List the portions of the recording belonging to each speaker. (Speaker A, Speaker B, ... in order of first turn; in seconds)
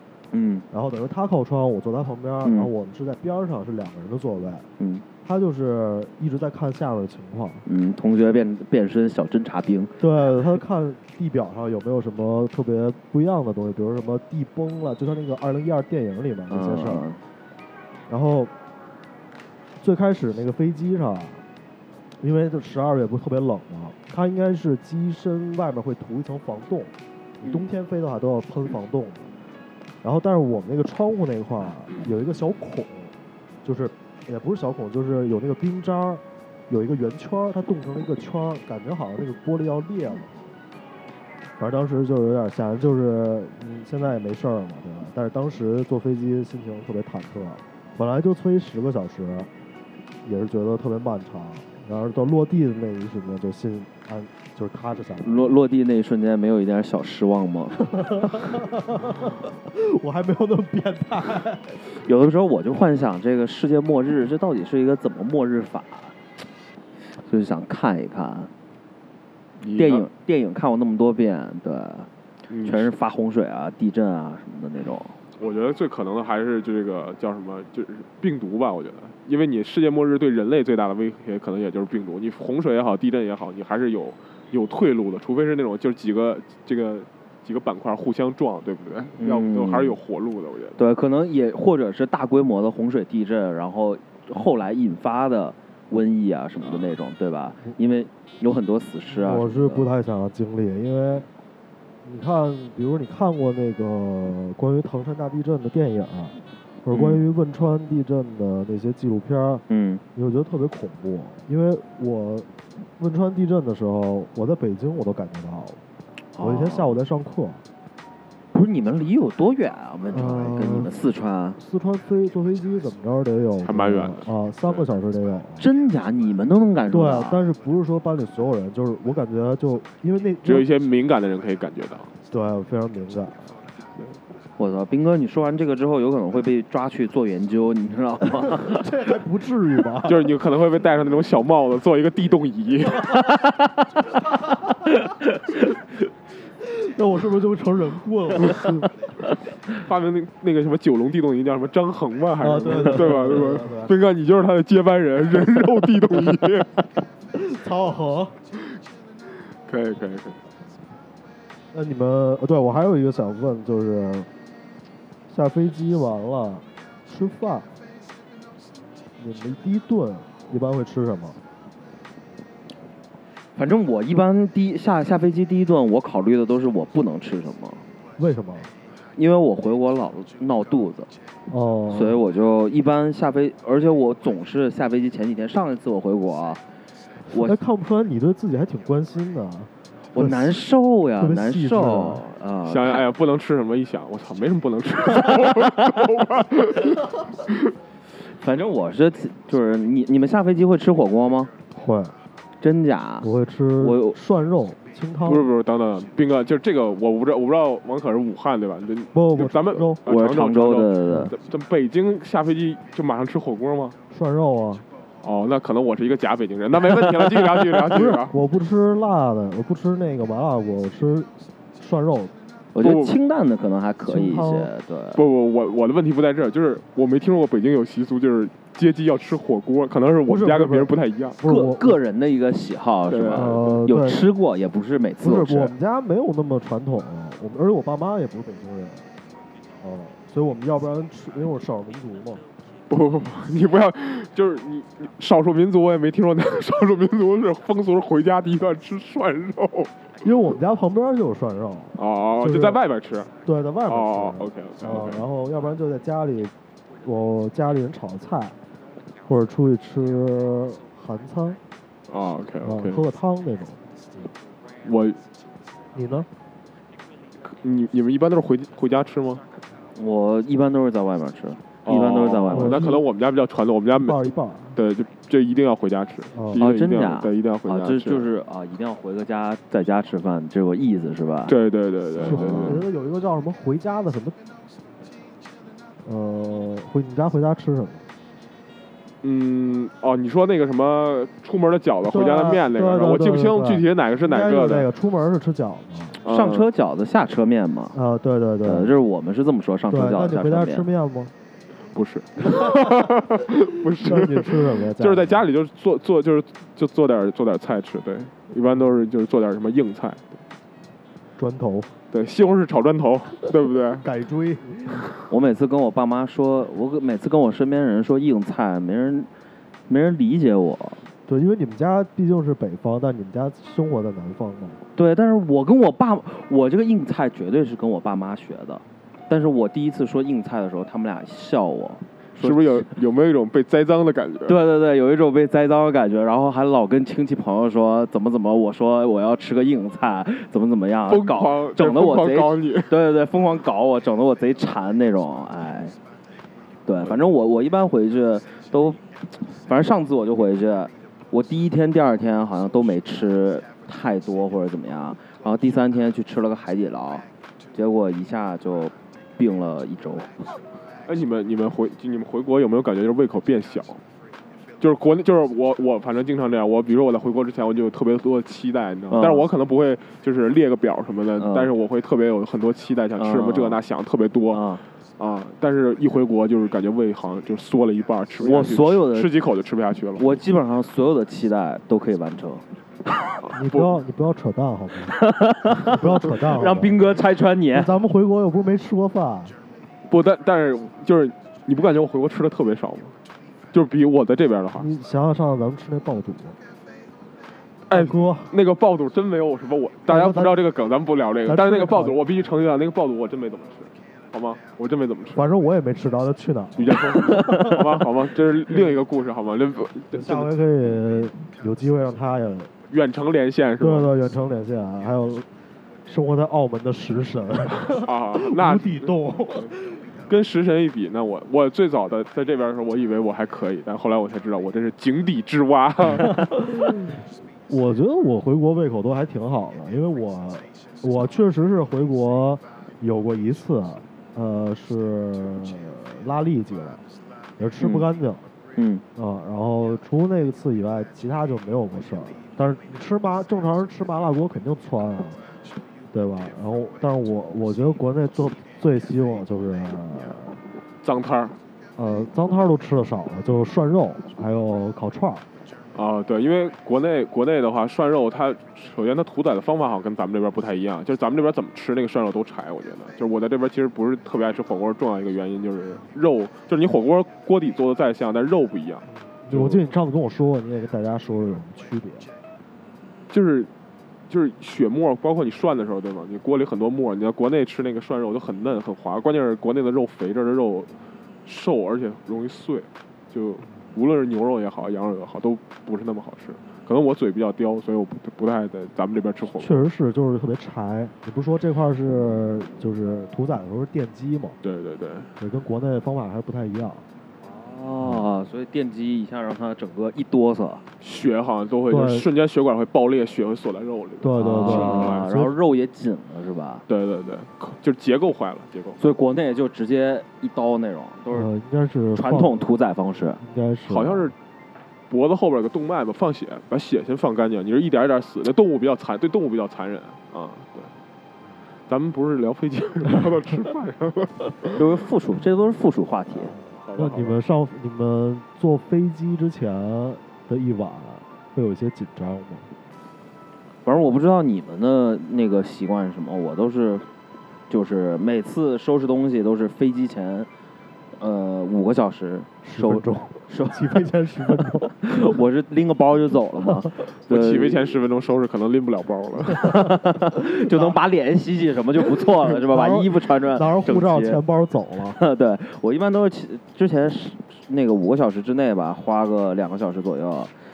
Speaker A: 0.3-0.7, 2.4-2.7, 4.8-5.0, 7.7-9.9, 16.5-17.2, 27.4-27.7, 55.2-57.8, 61.9-66.1, 67.2-68.5, 69.7-72.1, 72.7-75.2, 89.2-90.0, 90.8-99.9, 106.9-107.2, 109.7-110.0, 116.4-117.0, 118.5-121.6, 125.6-127.4, 134.6-138.9, 143.1-143.9, 144.9-145.6, 173.6-177.8, 179.2-181.1, 181.9-186.6, 187.3-187.6, 190.1-193.0, 198.3-201.5, 202.6-204.2, 210.1-211.3, 222.8-225.2, 231.4-235.7, 270.0-272.9, 276.6-281.6, 282.2-282.8, 296.3-298.0, 298.6-300.9, 315.3-319.3, 319.9-321.0, 324.9-332.9, 334.5-345.9, 346.9-360.5, 369.1-369.5, 371.4-371.7, 373.2-373.8, 374.5-374.8, 378.4-379.3, 380.2-382.6, 385.1-387.9, 437.8-438.1, 438.8-439.0, 497.4-500.8, 504.4-506.8, 509.0-511.5, 512.1-513.4, 524.8-526.5, 533.9-537.1, 537.7-540.5, 541.2-547.9, 549.6-554.4, 555.1-560.5
Speaker B: 0.7-4.7, 5.2-7.7, 10.0-17.1, 18.1-18.5, 19.8-21.4, 22.2-29.3, 30.0-33.1, 33.6-40.4, 41.6-49.5, 50.2-55.6, 57.8-61.8, 99.1-101.3, 102.0-109.6, 110.2-115.8, 116.4-117.6, 120.1-120.9, 121.6-125.7, 126.9-130.7, 132.3-133.6, 138.4-140.3, 146.6-148.9, 152.4-154.0, 157.3-158.3, 161.7-164.3, 165.3-167.8, 169.2-171.4, 178.2-178.7, 181.5-182.2, 187.3-190.7, 191.2-192.2, 201.7-202.2, 203.2-205.5, 209.1-210.0, 214.1-214.8, 217.9-222.3, 224.1-224.7, 230.3-232.0, 233.3-234.3, 235.2-239.1, 239.8-242.4, 250.2-252.8, 253.4-258.6, 259.3-261.6, 262.6-263.9, 265.9-266.3, 272.5-273.0, 274.0-274.8, 276.3-276.7, 282.2-284.4, 286.0-288.1, 292.1-296.2, 297.9-299.0, 299.9-301.3, 302.5-302.9, 304.0-305.4, 311.4-311.9, 314.0-315.1, 321.3-324.8, 383.5-387.1, 387.7-389.6, 394.7-396.6, 397.9-398.6, 400.1-400.6, 401.4-402.2, 405.3-408.1, 410.1-412.7, 413.8-415.5, 416.1-420.1, 426.2-427.1, 427.7-437.0, 437.6-438.5, 439.1-445.4, 446.1-450.6, 452.0-455.4, 469.3-472.3, 489.6-494.6, 495.4-497.1, 501.9-502.3, 504.2-505.6, 511.3-512.7, 513.4-514.3, 527.0-532.7, 542.6-545.4, 550.5-551.0, 552.4-555.2
Speaker C: 69.6-70.1, 72.5-72.9, 75.4-90.8, 123.6-124.8, 130.4-132.1, 140.0-143.3, 149.7-156.8, 159.7-160.4, 192.7-197.7, 205.2-214.0, 215.2-218.4, 222.8-223.2, 225.2-231.4, 233.1-233.9, 242.9-249.9, 252.0-253.3, 253.9-255.2, 262.1-263.1, 264.8-265.2, 267.5-269.4, 271.9-278.3, 281.5-282.9, 289.2-294.9, 296.2-296.7, 301.9-310.4, 312.1-314.1, 332.4-334.6, 341.1-342.9, 361.1-364.0, 364.8-374.6, 375.2-380.4, 383.4-384.0, 390.1-393.1, 393.7-394.9, 397.9-405.4, 406.8-410.5, 412.9-414.1, 417.9-419.6, 420.3-426.5, 451.0-451.6, 455.9-469.9, 473.3-473.7, 474.3-480.9, 481.4-489.9, 494.6-495.3, 501.0-505.3, 506.9-509.0, 513.9-514.4, 515.1-520.9, 521.9-524.8, 526.6-527.4, 547.3-549.8